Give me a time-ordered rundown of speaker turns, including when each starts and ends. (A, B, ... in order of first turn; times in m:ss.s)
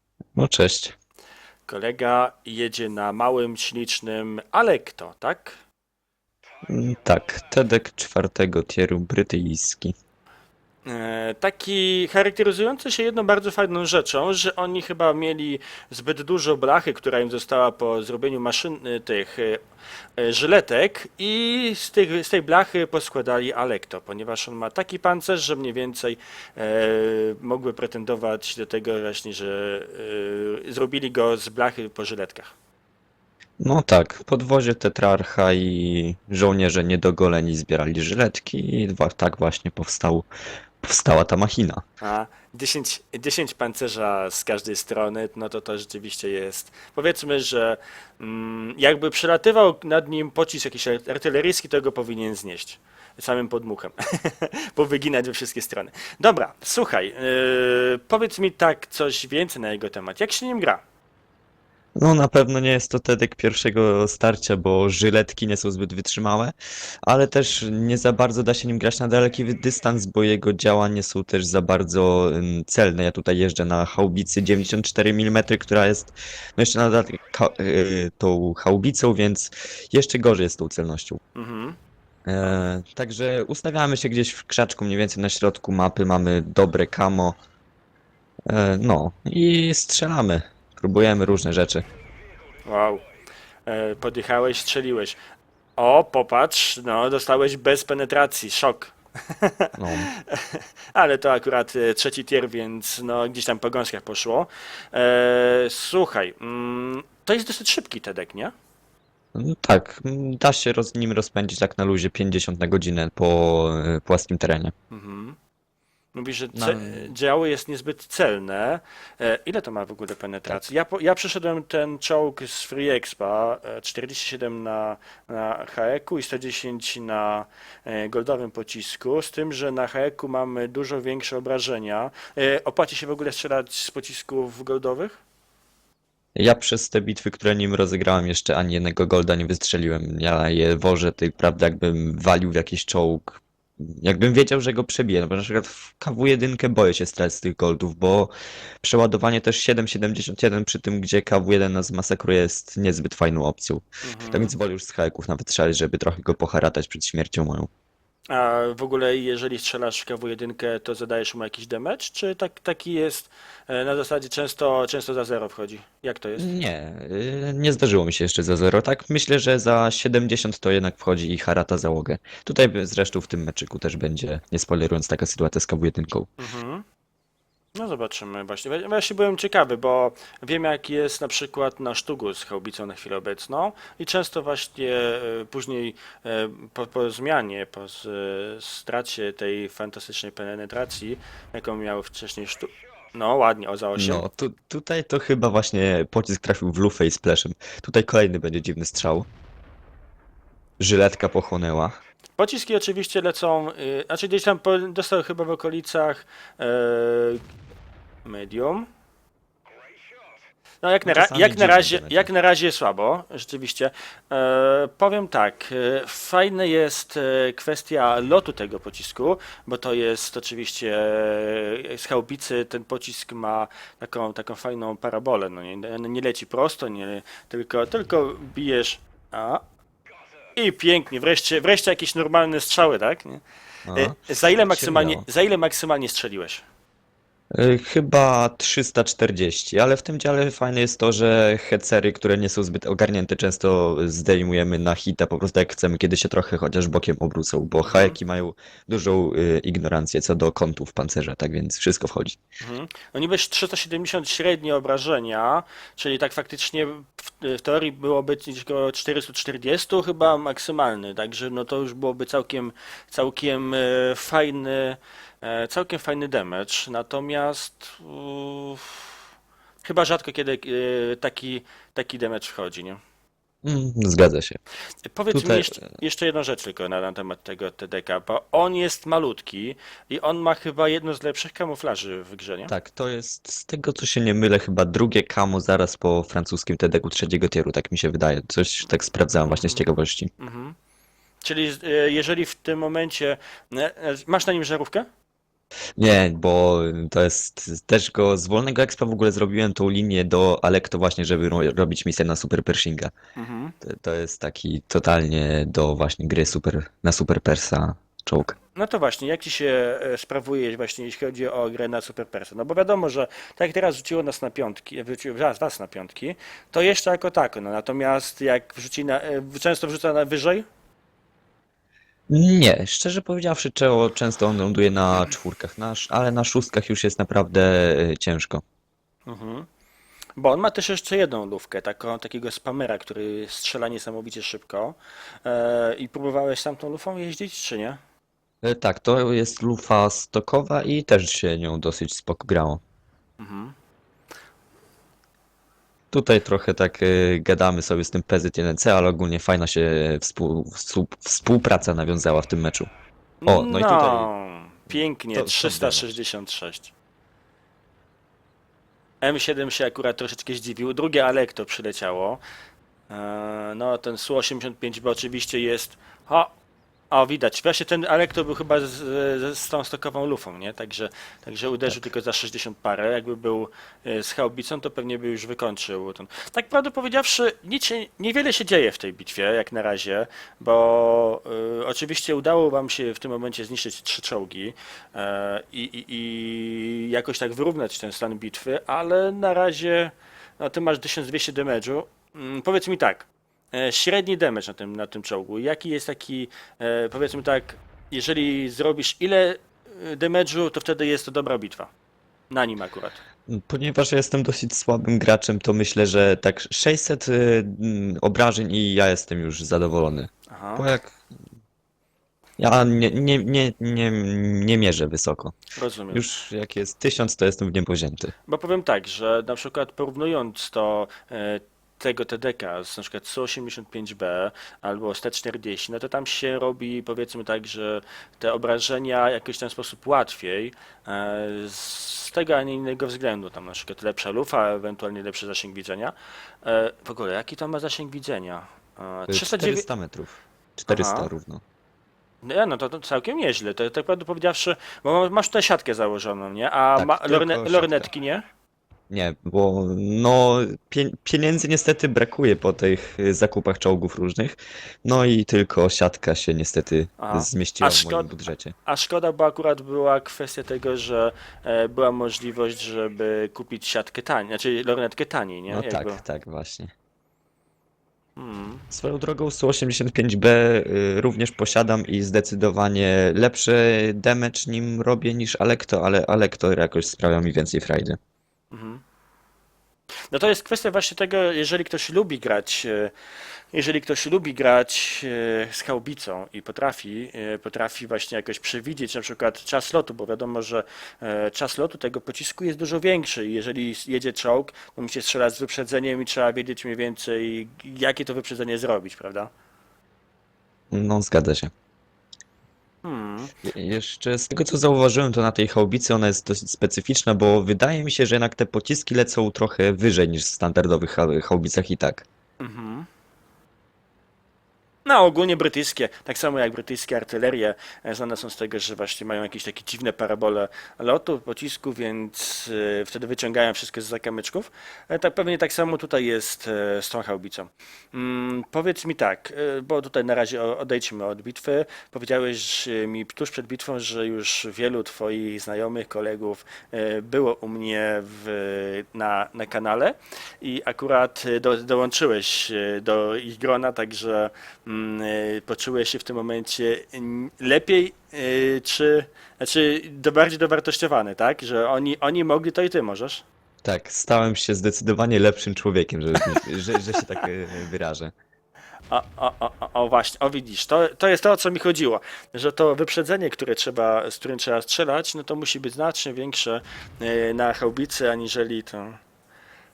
0:00.4-0:01.0 A
0:01.7-0:05.6 B
0:06.7-0:09.9 A
0:10.8-0:19.6 B
0:20.2-0:32.5 B
0:33.6-0:40.3 A
0:40.8-0:41.8 A
0:42.0-1:00.8 B
1:02.0-1:06.5 A
1:07.0-1:21.2 A
1:21.4-1:21.8 B
1:22.2-1:27.4 A
1:28.5-1:31.8 A
1:32.6-1:33.0 B
1:33.7-1:35.2 B
1:35.8-1:48.5 B
1:39.8-1:40.1 A
1:49.3-1:54.7 A
1:54.9-1:55.4 B
1:56.1-2:15.2 B
1:56.5-1:57.1 A
2:16.4-2:37.7 A
2:34.0-2:34.5 B
2:38.3-2:46.5 B
2:46.4-2:56.3 A
2:56.4-2:56.8 B
2:57.8-3:14.2 B
3:14.0-3:19.3 A
3:20.8-3:21.9 A
3:22.4-3:27.4 B
3:28.2-3:28.9 B
3:30.8-3:49.6 B
3:31.0-3:32.3 A
3:50.6-3:56.6 B
3:53.9-3:55.2 A
3:57.5-4:12.4 A
4:07.8-4:08.2 B
4:12.6-4:29.1 B
4:29.8-4:33.0 B
4:33.6-4:34.6 A
4:35.0-4:42.7 B
4:35.3-4:35.9 A
4:42.7-4:50.3 A
4:49.5-4:49.8 B
4:50.4-4:50.8 B
4:51.4-4:55.0 B
4:56.0-5:03.1 A
5:03.4-5:03.7 B
5:03.8-5:08.6 A
5:08.7-5:20.6 B
5:22.3-5:28.6 A
5:29.3-5:29.7 B
5:30.4-5:38.0 B
5:38.6-5:42.8 A
5:43.4-5:43.7 B
5:46.1-5:52.9 A
5:53.4-5:56.9 B
5:53.4-5:54.3 A
5:54.9-5:56.1 A
5:59.2-6:02.4 B
6:03.1-6:06.5 B
6:07.1-6:41.9 B
6:42.5-6:43.2 B
6:43.5-6:51.2 A
6:50.5-6:50.9 B
6:52.6-6:55.5 A
6:55.7-6:56.2 B
6:56.1-6:58.3 A
6:58.5-7:19.8 B
7:19.3-7:21.6 A
7:20.9-7:21.3 B
7:22.4-7:28.4 B
7:27.0-7:28.1 A
7:29.1-7:38.7 A
7:37.2-7:38.3 B
7:38.8-7:46.2 B
7:45.7-7:46.9 A
7:48.4-7:48.8 B
7:48.9-7:58.2 A
7:58.7-7:59.0 B
8:00.3-8:03.1 B
8:03.7-8:19.5 B
8:20.9-8:21.7 A
8:23.0-8:23.5 B
8:23.6-8:32.2 A
8:32.6-8:33.1 B
8:35.0-9:13.4 B
9:13.8-9:18.3 A
9:19.1-9:29.2 B